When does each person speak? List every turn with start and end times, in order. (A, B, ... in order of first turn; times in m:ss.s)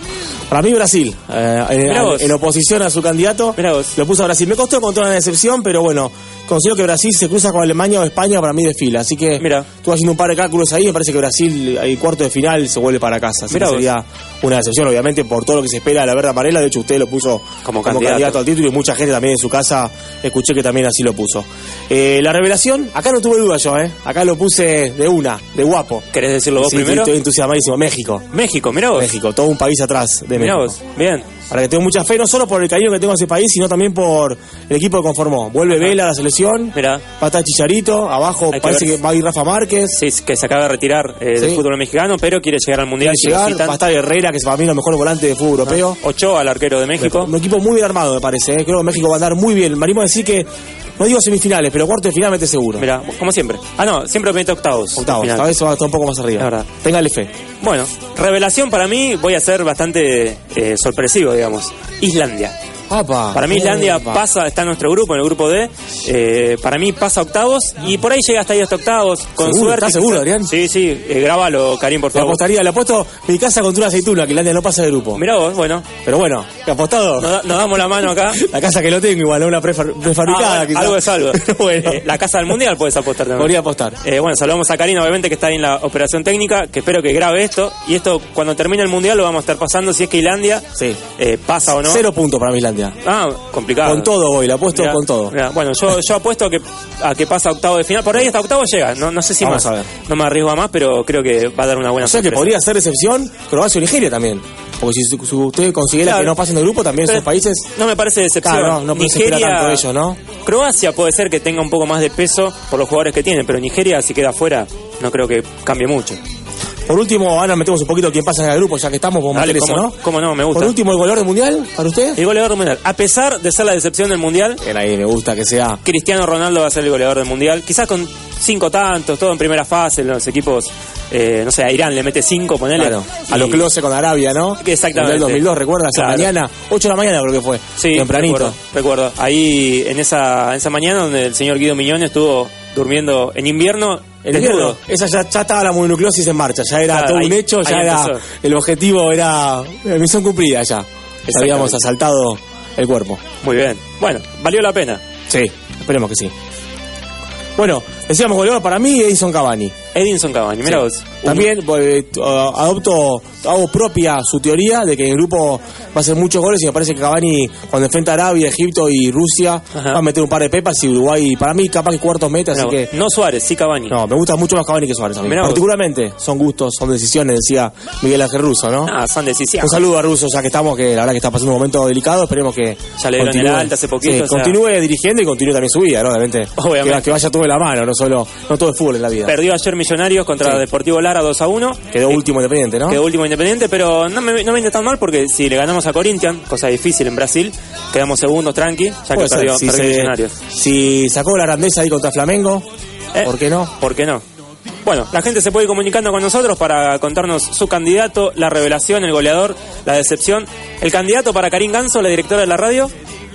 0:00.5-0:26.0 A
0:01.8-0:02.3 B
0:03.6-0:03.9 B
0:09.4-0:09.7 B
0:13.5-0:13.9 B
0:17.6-0:18.4 B
0:26.1-0:27.1 B
0:26.6-0:28.2 A
0:28.3-0:29.1 B
0:28.9-0:30.8 A
0:30.4-0:31.3 B
0:31.5-0:40.0 A
0:35.7-0:36.0 B
0:36.7-0:37.0 B
0:38.5-0:38.9 B
0:39.9-0:43.8 B
0:41.4-0:41.6 A
0:43.0-0:46.0 A
0:45.6-0:47.3 B
0:47.0-0:52.9 A
0:52.8-0:55.5 B
0:55.0-0:57.3 A
0:56.4-0:56.7 B
0:57.6-1:02.6 B
1:02.9-1:04.2 A
1:03.3-1:12.4 B
1:09.4-1:10.5 A
1:12.1-1:15.2 A
1:15.1-1:15.9 B
1:16.0-1:17.4 A
1:17.2-1:18.4 B
1:17.9-1:22.0 A
1:20.2-1:32.0 B
1:23.4-1:24.0 A
1:31.8-1:33.0 A
1:33.0-1:34.1 B
1:33.8-1:35.3 A
1:34.7-1:42.6 B
1:39.4-1:39.9 A
1:42.0-1:47.6 A
1:46.0-1:46.3 B
1:47.0-1:49.8 B
1:48.4-1:50.2 A
1:50.4-1:56.2 B
1:56.9-2:00.0 A
1:59.3-2:00.8 B
2:00.5-2:02.2 A
2:02.2-2:04.6 B
2:04.6-2:05.8 A
2:05.8-2:13.6 B
2:12.8-2:18.6 A
2:14.6-2:16.3 B
2:17.8-2:24.8 B
2:24.2-2:33.2 A
2:26.9-2:28.2 B
2:31.2-2:31.8 B
2:33.4-2:35.0 B
2:35.3-2:36.3 A
2:37.6-2:39.7 A
2:39.9-2:41.5 B
2:40.6-2:52.9 A
2:49.7-2:50.0 B
2:52.5-2:54.0 B
2:53.9-2:58.9 A
2:55.2-2:55.6 B
2:58.8-2:59.8 B
2:59.6-3:09.3 A
3:03.0-3:04.6 B
3:06.6-3:07.1 B
3:09.2-3:12.2 B
3:11.9-3:13.0 A
3:12.9-3:20.4 B
3:19.1-3:22.6 A
3:23.1-3:24.2 B
3:23.2-3:23.7 A
3:24.8-3:32.9 B